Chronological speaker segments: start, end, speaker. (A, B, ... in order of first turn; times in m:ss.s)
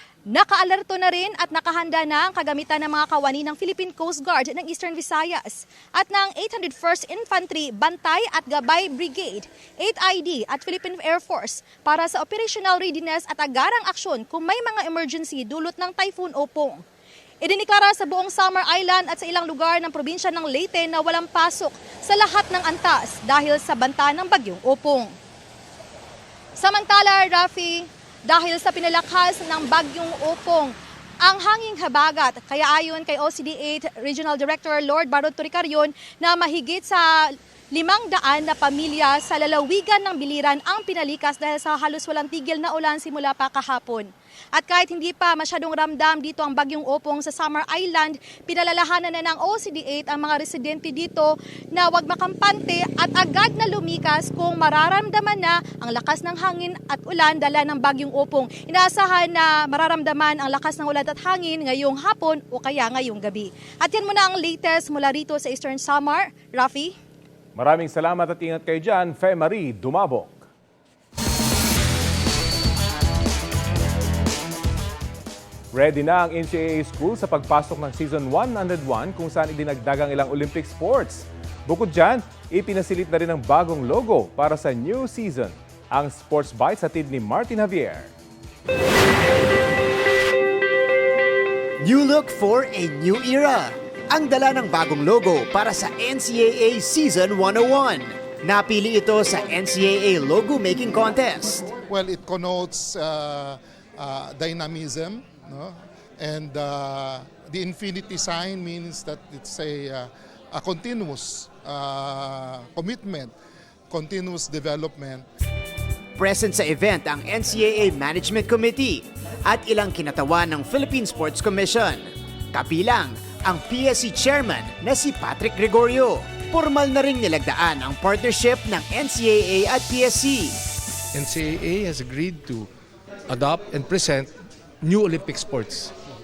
0:00.3-0:16.8 A
0:17.4-0:25.1 A
0:26.6-0:30.7 A
0:31.2-1:07.0 A
1:07.6-1:10.4 B
1:15.7-1:28.1 B
1:31.8-1:41.8 C
1:41.8-1:53.4 D
1:53.9-1:55.2 D
1:56.2-2:10.6 C
2:11.1-2:12.7 E
2:13.3-2:16.0 E